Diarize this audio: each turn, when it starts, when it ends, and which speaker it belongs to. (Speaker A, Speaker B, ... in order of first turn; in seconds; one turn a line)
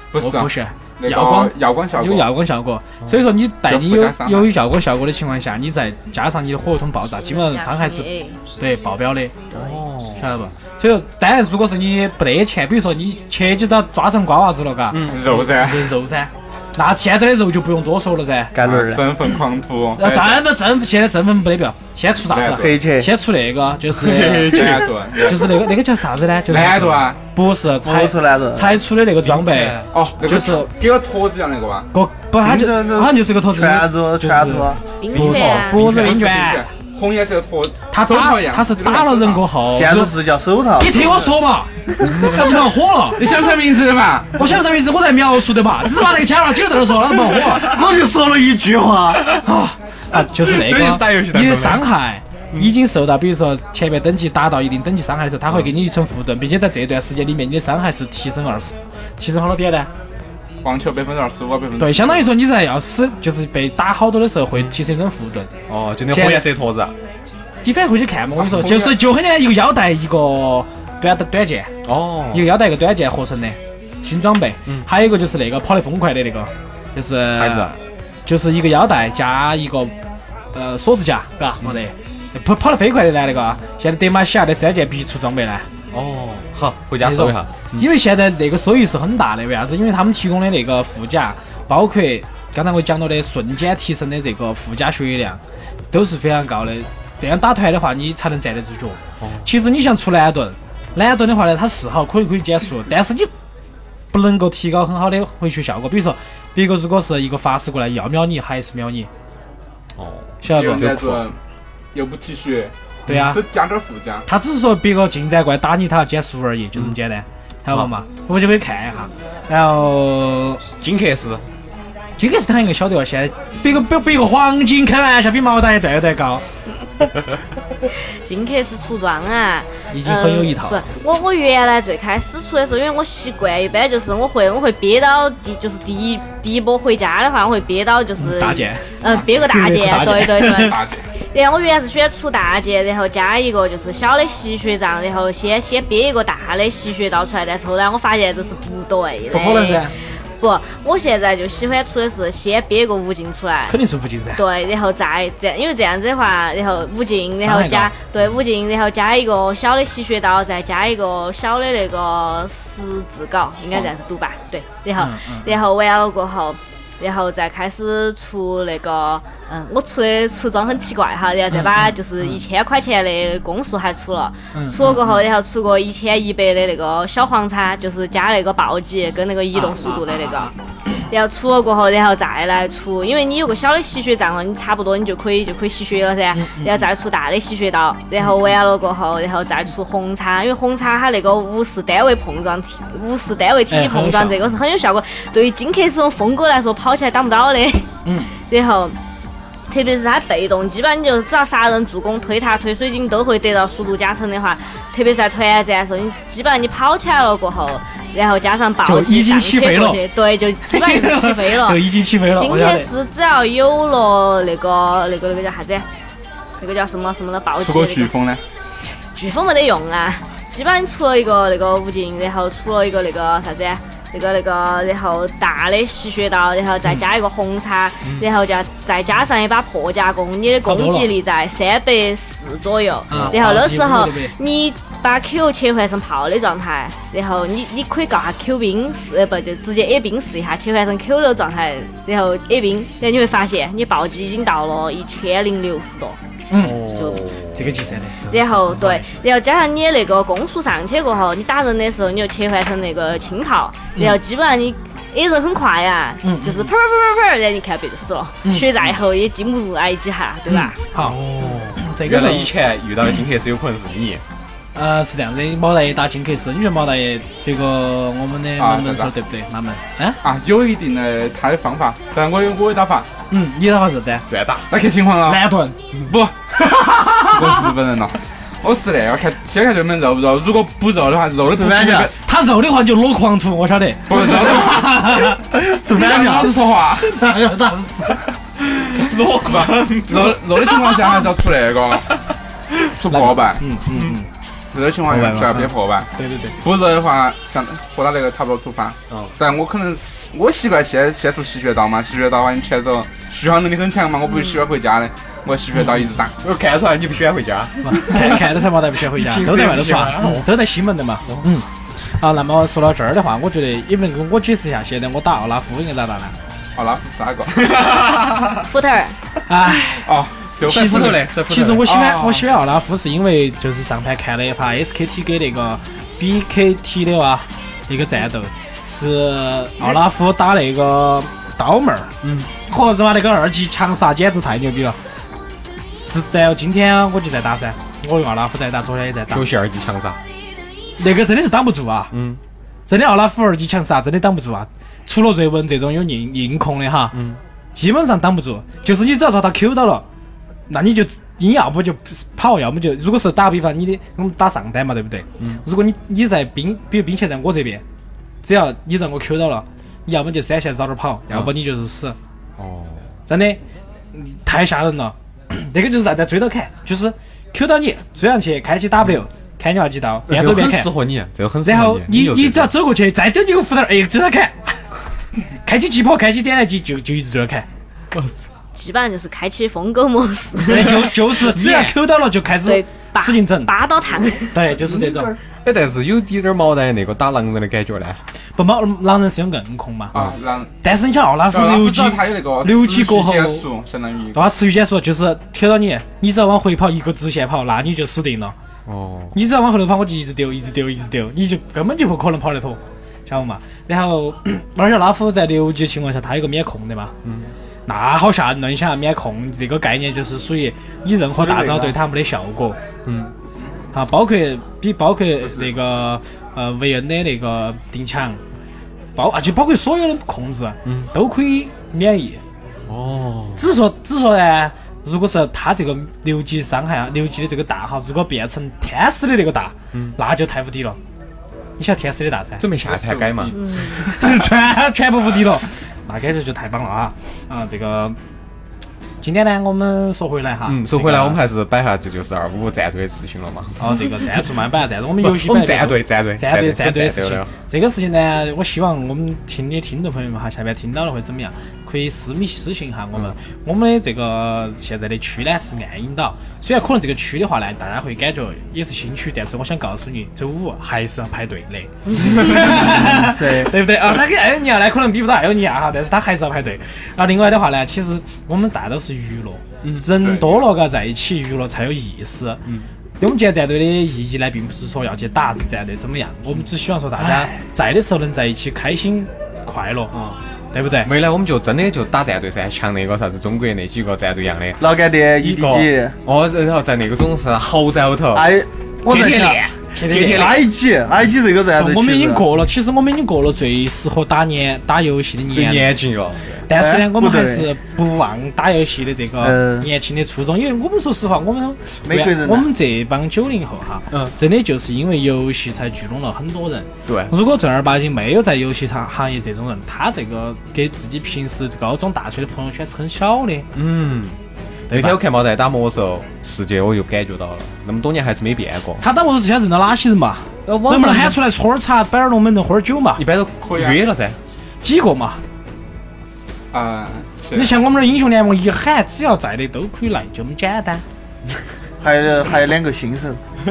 Speaker A: 0.1-2.3
Speaker B: 0.2-9.4
Speaker A: 3.6-4.5
Speaker C: 7.0-8.4
Speaker C: 9.5-9.8
Speaker D: 9.5-10.3
Speaker B: 10.2-18.6
Speaker D: 14.9-15.3
Speaker A: 15.0-15.9
Speaker E: 18.5-19.1
Speaker A: 18.6-20.5
Speaker B: 20.0-30.7
Speaker A: 22.3-22.8
Speaker E: 22.5-23.1
Speaker D: 24.0-24.3
Speaker E: 24.1-24.6
Speaker A: 24.2-25.4
Speaker A: 26.5-27.2
Speaker E: 27.8-28.8
Speaker D: 29.2-30.0
Speaker A: 29.9-31.9
Speaker B: 31.9-36.7
Speaker E: 32.4-34.8
Speaker C: 35.0-35.8
Speaker A: 35.2-39.5
Speaker B: 37.9-40.1
Speaker E: 39.7-41.1
Speaker B: 40.8-43.2
Speaker A: 43.1-44.4
Speaker B: 44.3-47.7
Speaker E: 47.4-49.3
Speaker B: 49.4-59.9
Speaker D: 50.2-51.9
Speaker A: 60.6-62.3
Speaker B: 61.8-65.5
Speaker D: 65.7-66.9
Speaker B: 66.1-66.5
Speaker B: 67.6-71.7
Speaker D: 68.4-68.8
Speaker A: 68.6-68.9
Speaker D: 71.8-72.5
Speaker B: 72.3-79.9
Speaker D: 77.3-77.7
Speaker B: 80.5-85.7
Speaker D: 85.9-87.9
Speaker B: 87.0-103.3
Speaker D: 99.2-99.5
Speaker B: 104.1-109.1
Speaker D: 110.0-111.3
Speaker B: 110.4-110.9
Speaker A: 110.5-111.4
Speaker A: 111.9-114.2
Speaker B: 113.1-113.4
Speaker D: 113.1-113.3
Speaker B: 114.2-120.6
Speaker D: 120.8-121.4
Speaker B: 122.2-126.4
Speaker C: 127.9-140.8
Speaker B: 129.9-130.8
Speaker B: 138.2-140.7
Speaker A: 139.0-141.1
Speaker C: 141.3-153.8
Speaker B: 149.3-149.9
Speaker B: 153.7-154.4
Speaker C: 154.3-180.5
Speaker B: 157.4-157.9
Speaker B: 164.9-165.6
Speaker B: 171.5-171.9
Speaker B: 174.5-175.2
Speaker B: 179.5-180.5
Speaker C: 181.1-198.9
Speaker B: 186.3-186.8
Speaker B: 193.7-194.4
Speaker B: 198.0-198.3
Speaker C: 199.7-215.8
Speaker B: 208.8-210.0
Speaker B: 210.7-212.9
Speaker C: 216.6-218.1
Speaker A: 217.5-218.4
Speaker C: 219.1-246.2
Speaker B: 230.6-231.1
Speaker B: 233.1-234.3
Speaker B: 246.5-246.8
Speaker D: 246.6-247.8
Speaker C: 246.8-247.2
Speaker B: 247.5-249.1
Speaker C: 248.3-260.8
Speaker B: 256.2-256.7
Speaker B: 258.4-258.7
Speaker B: 260.5-262.5
Speaker D: 260.9-264.2
Speaker B: 264.7-270.2
Speaker A: 268.6-269.1
Speaker A: 270.2-273.1
Speaker B: 273.3-274.2
Speaker D: 274.3-274.7
Speaker A: 274.7-275.4
Speaker B: 275.2-275.8
Speaker A: 276.0-276.4
Speaker B: 276.9-277.5
Speaker A: 277.2-282.1
Speaker E: 281.5-282.1
Speaker B: 282.1-285.4
Speaker A: 284.1-285.1
Speaker E: 285.5-286.6
Speaker A: 285.9-287.2
Speaker B: 287.0-288.2
Speaker D: 288.6-291.2
Speaker A: 290.1-292.1
Speaker A: 293.0-293.6
Speaker B: 293.1-294.3
Speaker D: 293.9-294.1
Speaker A: 294.7-296.1
Speaker B: 295.1-296.6
Speaker A: 296.6-306.4
Speaker D: 299.1-299.3
Speaker D: 306.4-308.5
Speaker B: 307.8-316.3
Speaker D: 309.1-310.5
Speaker D: 311.2-311.5
Speaker A: 316.8-317.7
Speaker D: 317.5-318.7
Speaker C: 318.7-319.1
Speaker B: 319.5-320.1
Speaker A: 320.1-321.2
Speaker D: 320.6-321.9
Speaker B: 320.6-335.0
Speaker A: 321.8-322.4
Speaker D: 332.2-332.5
Speaker B: 336.1-339.5
Speaker D: 339.3-340.2
Speaker B: 341.0-342.1
Speaker D: 342.1-342.4
Speaker B: 342.9-347.2
Speaker D: 347.1-347.4
Speaker B: 347.7-350.0
Speaker B: 350.7-357.8
Speaker B: 358.4-362.1
Speaker D: 362.6-363.1
Speaker B: 363.3-363.6
Speaker B: 364.1-370.9
Speaker D: 370.3-372.7
Speaker B: 371.6-374.8
Speaker B: 375.6-377.6
Speaker C: 378.7-381.0
Speaker B: 380.6-383.8
Speaker D: 381.3-382.0
Speaker C: 382.6-384.6
Speaker B: 384.5-385.4
Speaker A: 384.8-385.3
Speaker D: 385.6-388.2
Speaker B: 388.6-390.3
Speaker A: 390.1-390.7
Speaker B: 390.8-393.7
Speaker A: 391.5-394.5
Speaker B: 394.3-398.5
Speaker D: 398.9-399.3
Speaker B: 399.3-407.1
Speaker D: 407.2-407.5
Speaker B: 407.9-412.8
Speaker E: 411.3-412.0
Speaker D: 413.0-413.3
Speaker B: 413.9-418.4
Speaker B: 419.1-422.4
Speaker D: 420.8-421.1
Speaker D: 422.9-423.6
Speaker B: 423.6-431.0
Speaker B: 431.8-432.6
Speaker D: 432.6-433.9
Speaker A: 432.9-433.6
Speaker C: 433.5-434.1
Speaker B: 434.0-438.2
Speaker B: 439.2-441.4
Speaker D: 440.6-444.0
Speaker B: 443.8-472.6
Speaker D: 445.2-447.5
Speaker E: 462.2-463.7
Speaker A: 470.2-470.7
Speaker B: 473.2-480.1
Speaker D: 477.2-477.5
Speaker B: 480.7-481.1
Speaker D: 481.0-490.6
Speaker E: 484.8-486.1
Speaker E: 488.3-489.6
Speaker B: 489.9-490.7
Speaker E: 490.2-492.4
Speaker B: 491.8-496.0
Speaker D: 495.5-496.7
Speaker B: 496.7-513.7
Speaker E: 496.7-497.7
Speaker E: 499.4-499.9
Speaker E: 502.0-502.7
Speaker D: 507.0-507.3
Speaker D: 513.7-514.4
Speaker B: 514.9-515.2
Speaker D: 514.9-519.0
Speaker B: 519.0-523.2
Speaker D: 520.6-521.4
Speaker D: 523.2-524.4
Speaker A: 523.6-524.0
Speaker B: 524.8-525.4
Speaker A: 526.7-527.7
Speaker B: 527.5-531.0
Speaker E: 532.0-533.4